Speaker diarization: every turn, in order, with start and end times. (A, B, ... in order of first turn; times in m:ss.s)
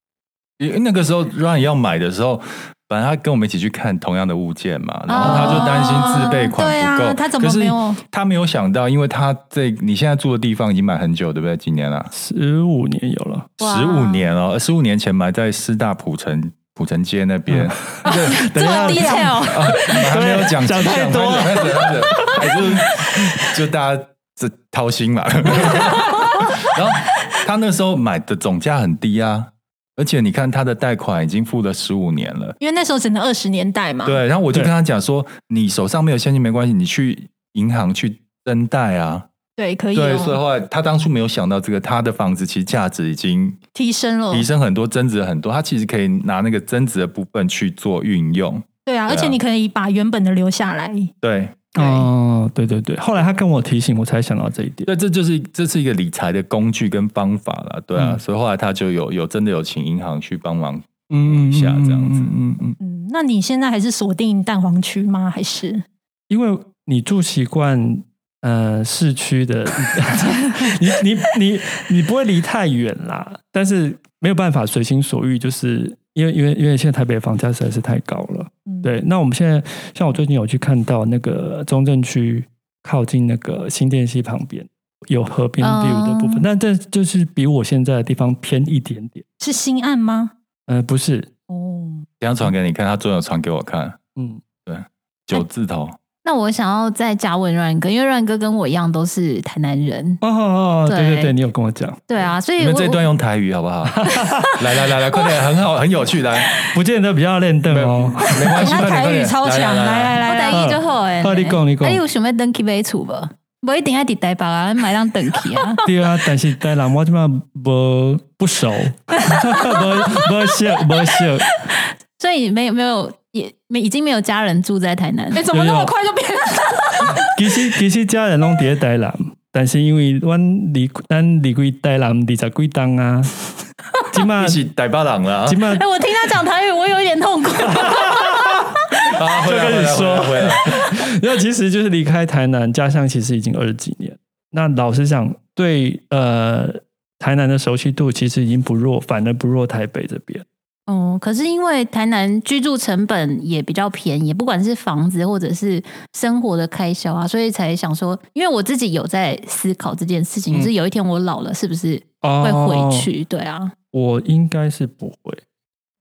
0:00.6-0:12.1 A
0:05.1-0:06.3 B
0:05.2-0:08.0 C
0:12.1-0:13.5 D
0:13.6-0:18.5 A
0:13.6-0:14.3 B
0:17.5-0:22.4 D
0:18.1-0:19.9 B
0:18.7-0:19.3 C
0:19.5-0:32.6 A
0:32.6-0:34.2 C
0:34.0-0:39.3 A
0:39.6-0:40.4 C
0:39.9-0:43.6 A
0:43.8-0:44.5 C
0:44.3-0:49.4 A
0:48.9-0:51.1 C
0:51.2-0:51.6 A
0:51.8-0:54.9 D
0:51.8-0:52.0 C
0:54.9-1:02.4 A
0:58.0-0:58.2 D
1:01.1-1:02.8 D
1:02.8-1:05.8 C
1:06.3-1:29.3 D
1:25.6-1:26.5 B
1:29.4-1:30.3 C
1:30.7-1:31.3 D
1:31.5-1:32.1 C
1:32.2-1:34.0 A
1:34.2-1:34.4 D
1:34.7-1:36.0 A
1:36.2-1:40.2 B
1:40.2-1:42.0 D
1:40.9-1:41.3 B
1:42.1-1:43.0 B
1:42.6-1:46.6 A
1:44.0-1:44.6 D
1:46.7-1:48.7 D
1:47.7-1:50.2 A
1:48.4-1:50.7 C
1:50.2-1:55.8 B
1:50.5-1:52.0 D
1:55.8-2:01.5 D
2:02.2-2:05.5 B
2:05.4-2:07.3 C
2:05.5-2:05.9 D
2:07.2-2:13.4 D
2:14.0-2:14.6 D
2:14.4-2:15.7 A
2:15.5-2:15.8 D
2:15.7-2:18.6 B
2:17.8-2:18.6 D
2:19.0-2:20.9 A
2:19.4-2:30.4 D
2:30.9-2:43.7 B
2:42.2-2:43.1 D
2:43.9-2:45.4 D